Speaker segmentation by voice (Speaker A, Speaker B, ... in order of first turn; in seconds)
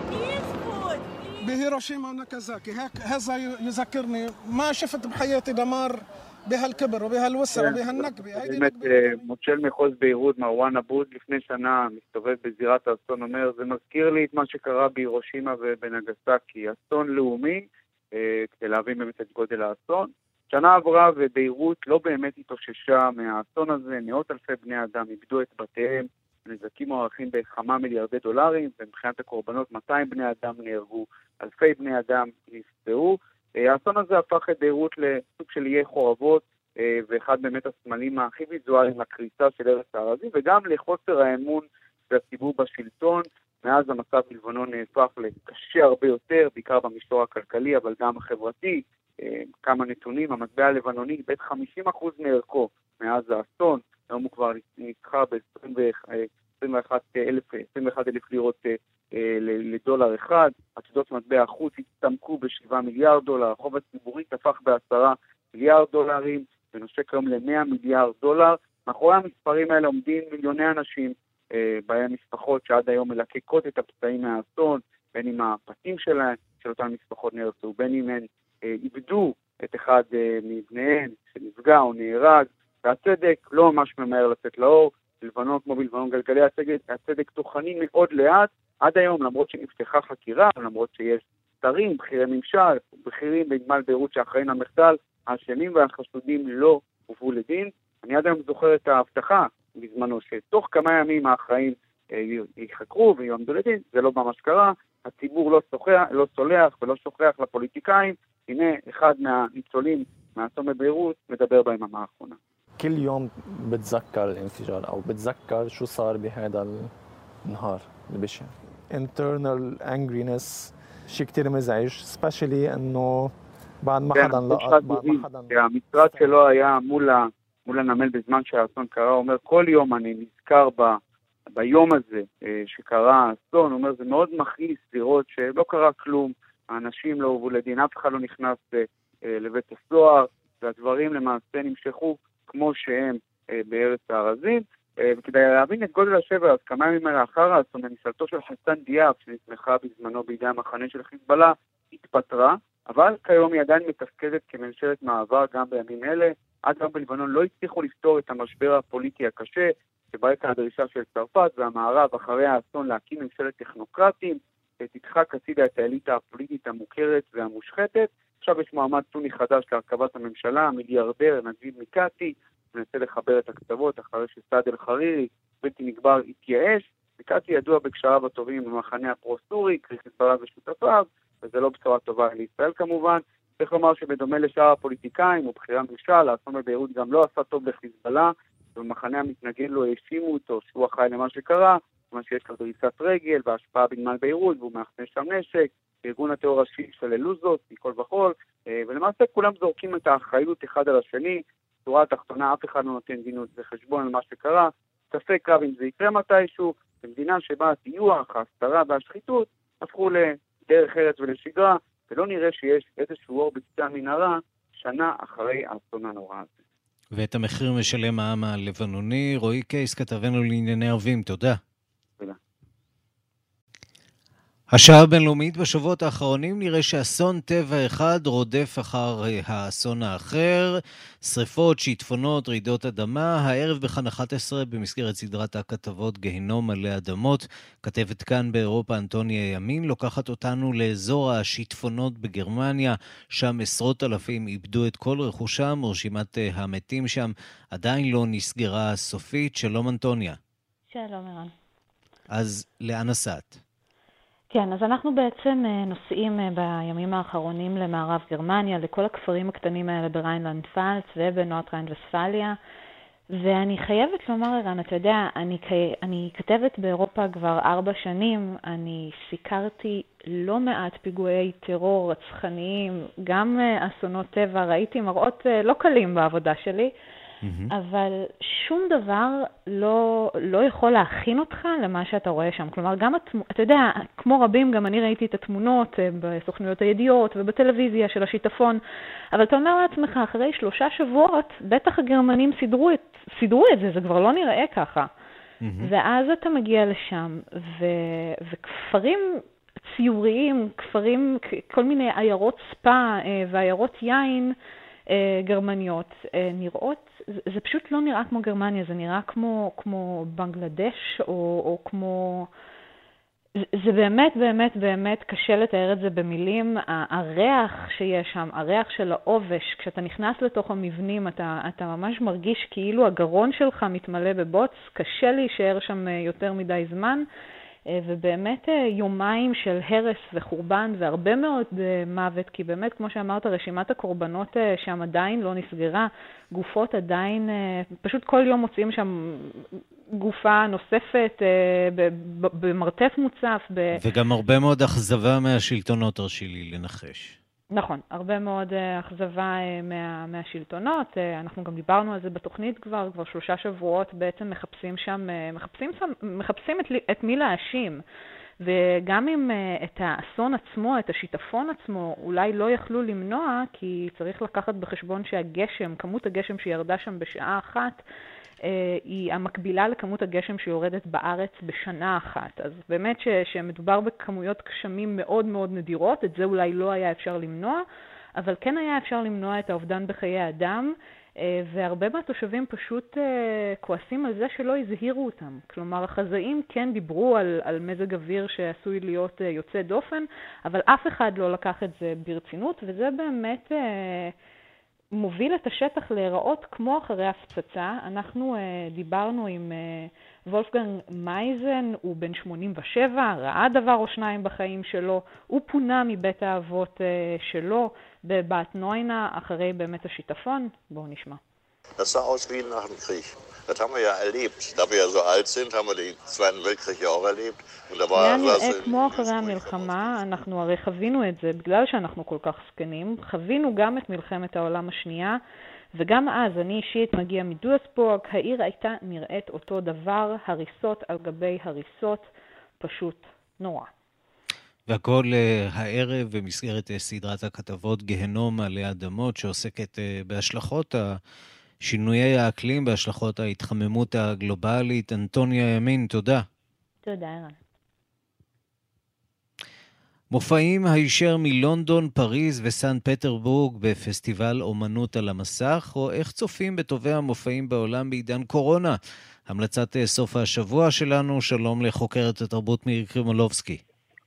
Speaker A: 1.4-9.2
Speaker B: 7.5-112.4, 124.2-131.0, 131.6-216.6
Speaker C: 112.8-116.7, 117.5-123.3, 123.8-125.5
Speaker D: 217.1-221.6, 224.7-250.4, 252.3-253.6, 277.4-277.7, 295.6-295.9, 344.0-347.4, 434.9-441.2, 441.8-446.4, 450.3-459.0, 459.5-463.8
Speaker E: 250.9-251.5, 254.5-262.6, 263.3-276.9, 277.7-288.8, 289.3-295.1, 295.8-304.5, 305.1-312.5, 313.8-327.2, 327.9-339.6, 340.2-344.0, 347.7-358.0, 358.6-368.0, 368.6-377.8, 378.4-394.3, 395.1-411.4, 418.1-425.4, 425.9-432.3, 432.8-433.9, 447.0-447.6
Speaker F: 412.0-420.4